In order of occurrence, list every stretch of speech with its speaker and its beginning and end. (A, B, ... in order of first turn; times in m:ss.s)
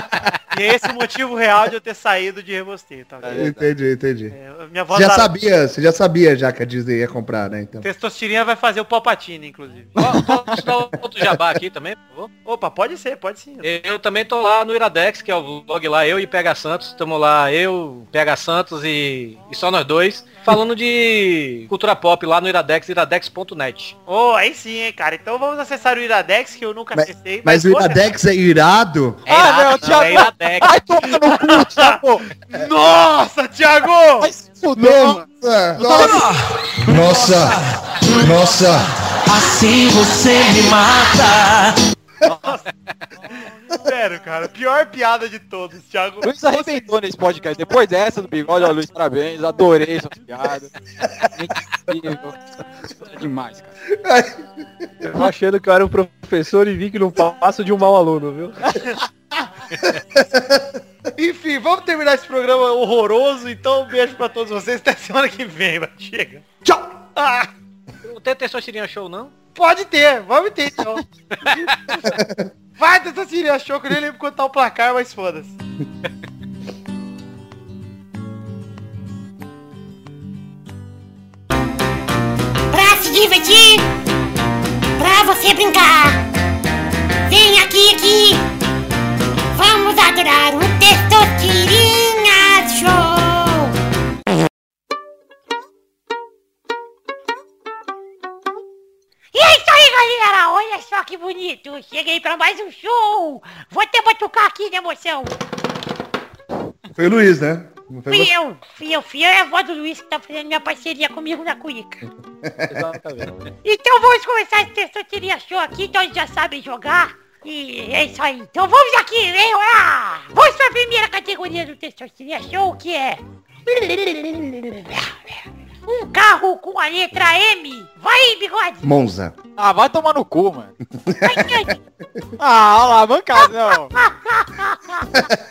0:00.5-0:03.6 A
0:03.2-0:03.7 B
0:03.3-0:04.3 C
0:04.3-0:05.3 A
0:04.9-0:07.9 C
0:07.8-0:09.9 A
0:10.0-0:10.6 B
0:10.0-0:12.3 D
0:12.4-0:13.7 A
0:13.6-0:24.0 D
0:24.1-0:28.0 A
0:26.9-0:29.2 C
0:29.3-0:32.2 B
0:29.3-0:30.8 D
0:31.2-0:32.0 A
0:32.5-0:34.3 A
0:34.2-0:35.2 B
0:34.8-0:36.2 C
0:35.8-0:36.3 B
0:36.9-0:37.6 C
0:36.9-0:37.6 E
0:38.2-0:38.9 C
0:39.3-0:41.8 E
0:42.2-0:42.6 B
0:43.8-0:46.9 A
0:46.2-0:50.8 B
0:51.3-0:52.4 B
0:53.1-0:53.7 B
0:54.0-0:54.5 C
0:55.0-0:58.6 F
1:00.2-1:00.7 C
1:01.2-1:06.4 A
1:07.1-1:07.5 A
1:08.0-1:09.3 D
1:09.6-1:11.0 A
1:11.4-1:11.7 D
1:12.1-1:12.5 C
1:12.8-1:15.6 A
1:22.7-1:23.9 G
1:25.0-1:26.2 G
1:27.3-1:28.4 G
1:29.5-1:33.8 G
1:39.3-1:45.4 G
1:47.0-1:48.3 C
1:48.1-1:52.0 G
1:52.4-1:52.9 C
1:52.7-1:53.3 F
1:53.6-2:08.8 G
2:08.8-2:09.4 C
2:09.6-2:10.7 B
2:11.1-2:11.7 C
2:11.2-2:11.8 G
2:12.4-2:13.9 B
2:13.4-2:15.3 G